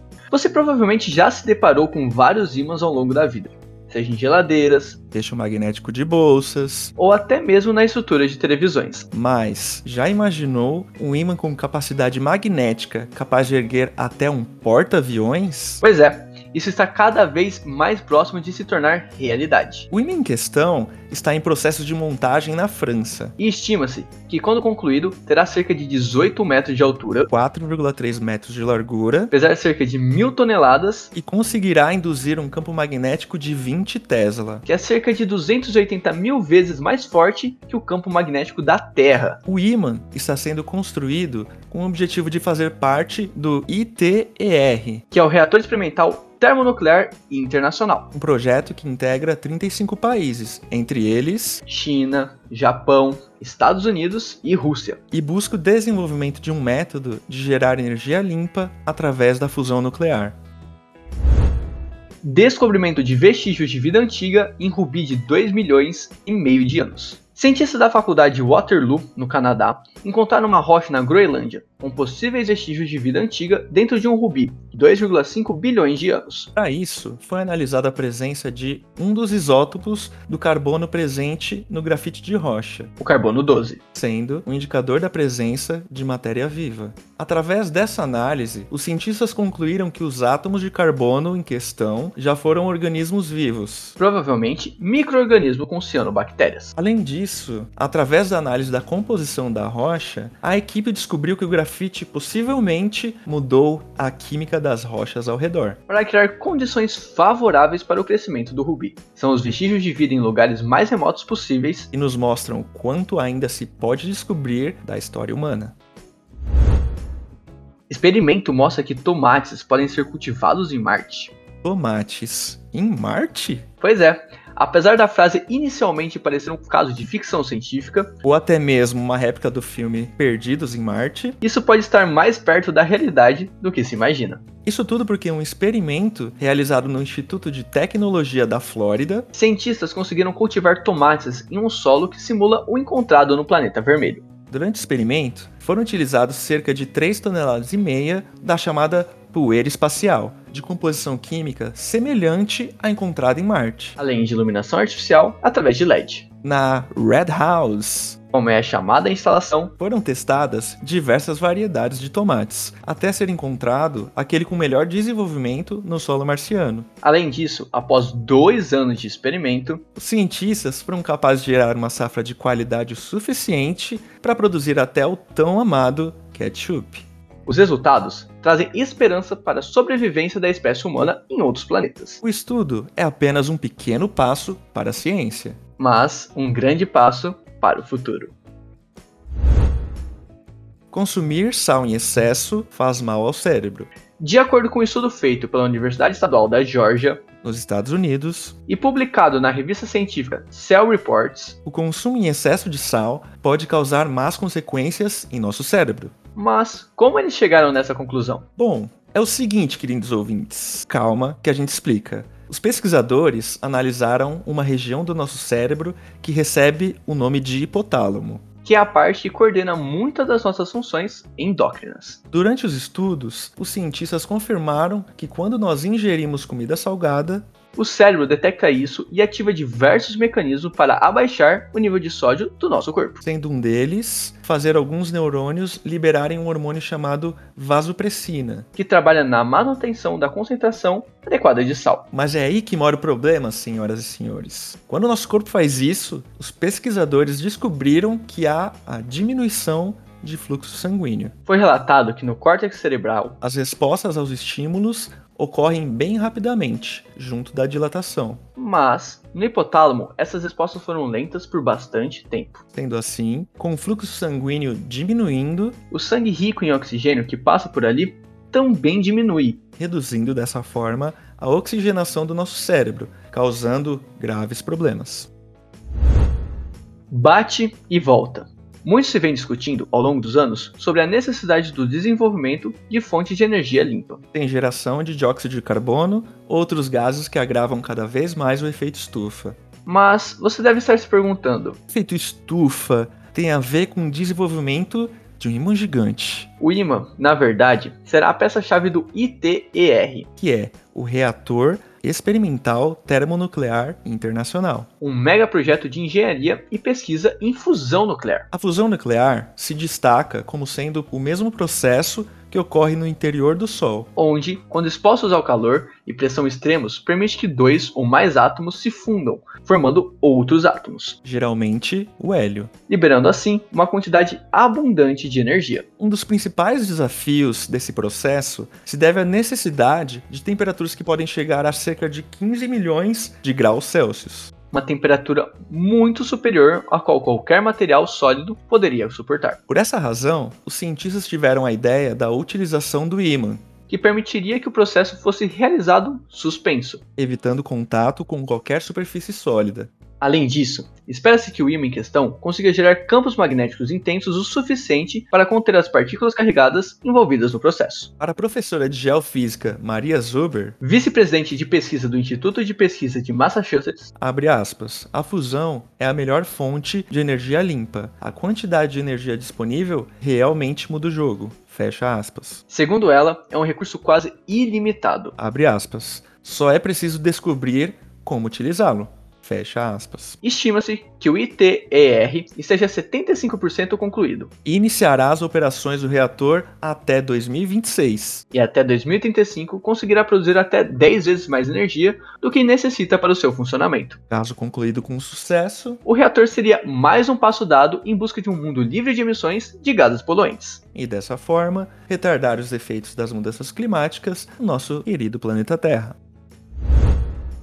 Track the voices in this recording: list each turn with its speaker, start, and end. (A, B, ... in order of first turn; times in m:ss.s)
0:00.3-0:05.0 A
0:05.1-0:06.9 B
0:07.0-0:09.1 A
0:09.1-0:15.8 B
0:15.8-0:19.9 A
0:19.9-0:23.3 B
0:23.4-0:27.3 A
0:27.3-0:29.3 B
0:29.3-0:31.1 A
0:31.1-0:34.6 B
0:34.7-0:39.4 A
0:39.5-0:45.0 B
0:45.1-0:48.1 A
0:48.1-0:51.6 B
0:51.7-0:55.0 A
0:55.1-1:00.4 B
1:02.2-1:16.5 A
1:16.6-1:22.9 B
1:23.0-1:23.8 A
1:23.9-1:34.0 B
1:34.0-1:36.7 A
1:36.8-1:45.8 B
1:45.9-1:51.9 A
1:51.9-1:55.8 B
1:57.9-2:01.3 A
2:01.6-2:03.7 B
2:03.8-2:08.1 A
2:08.2-2:11.4 B
2:11.4-2:14.4 A
2:14.6-2:19.3 B
2:19.3-2:24.2 A
2:24.5-2:34.0 B
2:34.0-2:36.2 A
2:36.4-2:38.2 B
2:38.3-2:39.7 A
2:39.8-2:46.9 B
2:47.0-2:49.8 A
2:50.0-2:57.1 B
2:57.5-3:02.2 A
3:02.2-3:05.6 B
3:05.8-3:08.4 A
3:10.9-3:13.9 B
3:14.2-3:17.2 A
3:17.4-3:18.6 B
3:18.7-3:21.6 A
3:21.6-3:26.1 B
3:26.4-3:28.4 A
3:28.6-3:38.4 B
3:38.6-3:42.2 A
3:42.3-3:47.4 B
3:47.8-3:53.2 A
3:53.2-3:58.7 B
3:58.8-4:02.1 A
4:02.1-4:11.4 B
4:11.5-4:13.4 A
4:13.4-4:18.4 B
4:18.6-4:22.6 A
4:22.7-4:25.8 B
4:25.9-4:29.6 A
4:29.8-4:35.3 B
4:37.1-4:44.2 A
4:44.3-4:49.6 B
4:49.9-4:51.8 A
4:51.9-4:56.5 B
4:56.6-5:00.3 A
5:00.4-5:04.9 B
5:05.0-5:08.5 A
5:08.5-5:14.1 B
5:14.2-5:21.2 A
5:21.2-5:22.7 B
5:22.9-5:25.9 A
5:26.0-5:34.5 B
5:34.7-5:39.6 A
5:39.7-5:43.6 B
5:43.9-5:47.0 A
5:47.2-5:49.9 B
5:50.2-5:58.1 A
5:58.2-6:00.8 B
6:00.8-6:04.1 A
6:04.2-6:12.6 B
6:12.7-6:15.3 A
6:15.4-6:20.4 B
6:20.4-6:24.5 A
6:24.6-6:28.4 B
6:28.5-6:34.2 A
6:34.3-6:36.0 B
6:36.0-6:40.8 A
6:40.9-6:46.2 B